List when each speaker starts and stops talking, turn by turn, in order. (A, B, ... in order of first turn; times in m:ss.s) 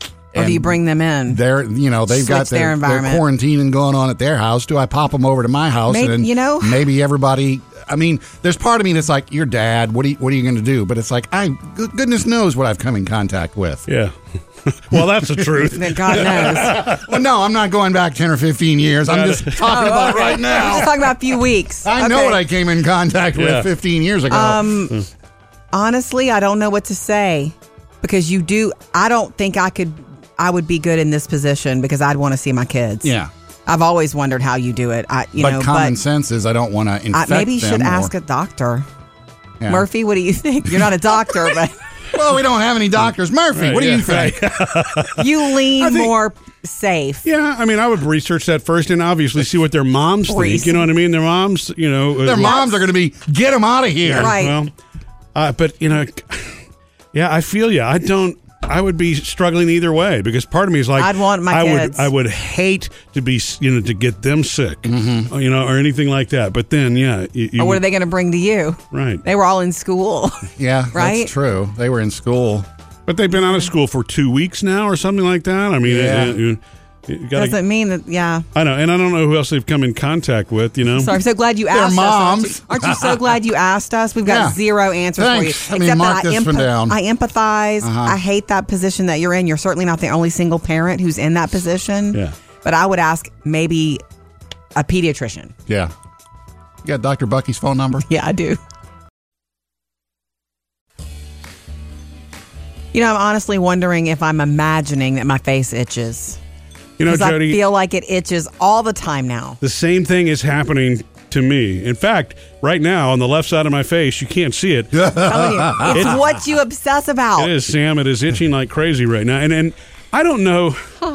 0:00.3-0:13.9 A
0:00.4-0:01.4 B
0:02.1-0:03.2 B
0:05.9-0:06.8 B
0:13.9-0:14.1 C
0:14.6-0:17.1 C
0:15.4-0:20.9 A
0:15.7-0:16.8 B
0:19.1-0:20.1 C
0:19.7-0:22.4 B
0:21.8-0:24.8 A
0:23.4-0:23.7 C
0:24.3-0:25.0 B
0:25.7-0:33.1 B
0:33.0-0:33.3 A
0:33.7-0:36.0 B
0:35.4-0:38.1 A
0:37.1-0:38.9 B
0:39.6-0:39.9 A
0:39.7-0:41.8 B
0:42.1-0:44.5 A
0:43.6-0:46.1 C
0:45.2-0:47.2 B
0:47.2-0:52.6 C
0:50.3-0:50.9 B
0:52.2-0:54.4 A
0:52.4-0:52.7 B
0:54.0-0:54.7 C
0:54.2-0:54.6 B
0:55.4-0:56.6 C
0:57.1-1:07.8 C
1:01.0-1:02.1 B
1:04.9-1:05.3 A
1:07.6-1:11.3 B
1:08.9-1:09.2 C
1:10.6-1:12.7 A
1:13.1-1:17.6 C
1:13.4-1:13.7 B
1:15.8-1:16.4 A
1:17.3-1:18.4 B
1:18.6-1:21.2 C
1:21.0-1:34.0 B
1:21.7-1:23.4 A
1:24.3-1:24.6 A
1:25.2-1:27.0 A
1:27.8-1:28.2 A
1:34.8-1:35.5 B
1:35.7-1:35.9 A
1:36.8-1:38.1 A
1:38.1-1:38.6 B
1:42.9-1:46.4 B
1:47.0-1:47.6 C
1:47.1-1:49.6 B
1:49.6-1:55.1 C
1:54.9-1:56.2 A
1:55.1-1:57.5 B
1:55.9-1:56.2 C
1:57.4-2:00.9 C